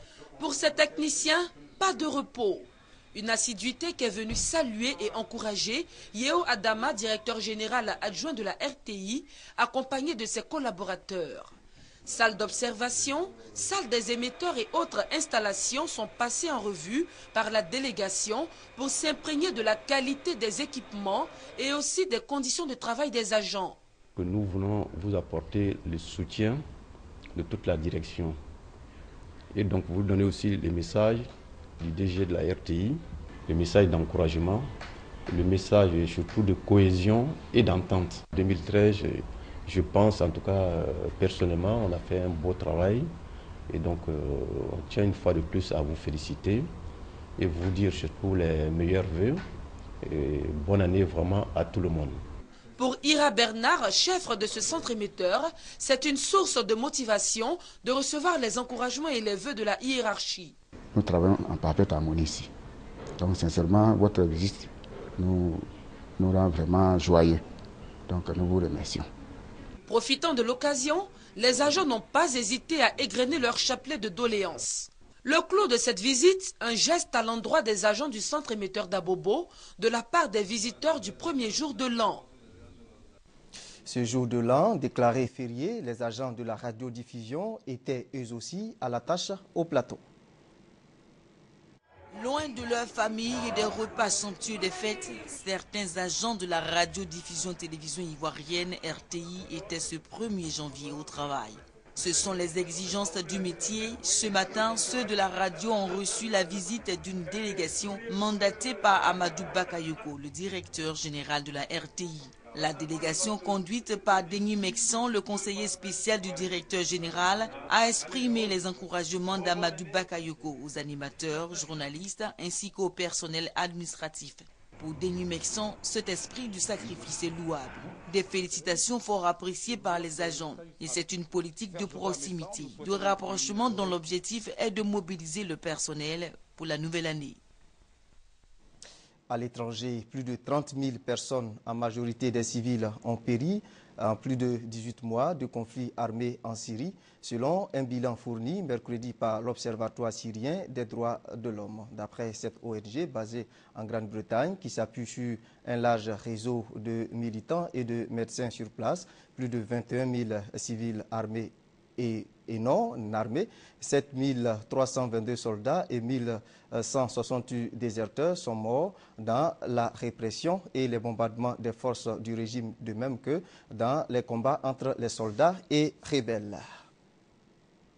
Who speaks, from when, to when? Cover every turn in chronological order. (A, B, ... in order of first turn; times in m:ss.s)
0:00.4-0:23.8 A
0:24.2-0:26.6 B
0:27.4-0:28.4 B
0:29.5-0:31.3 B
0:31.8-0:34.7 B
0:35.3-0:43.1 B
0:43.7-0:46.7 B
0:47.4-0:49.4 B
0:50.0-0:52.2 B
0:52.8-1:00.6 A
1:01.0-1:02.5 C
1:03.2-1:05.6 C
1:06.2-1:07.4 C
1:08.1-1:09.1 C
1:09.9-1:22.3 A
1:23.9-1:30.0 D
1:32.1-2:17.4 E
2:19.3-2:56.8 D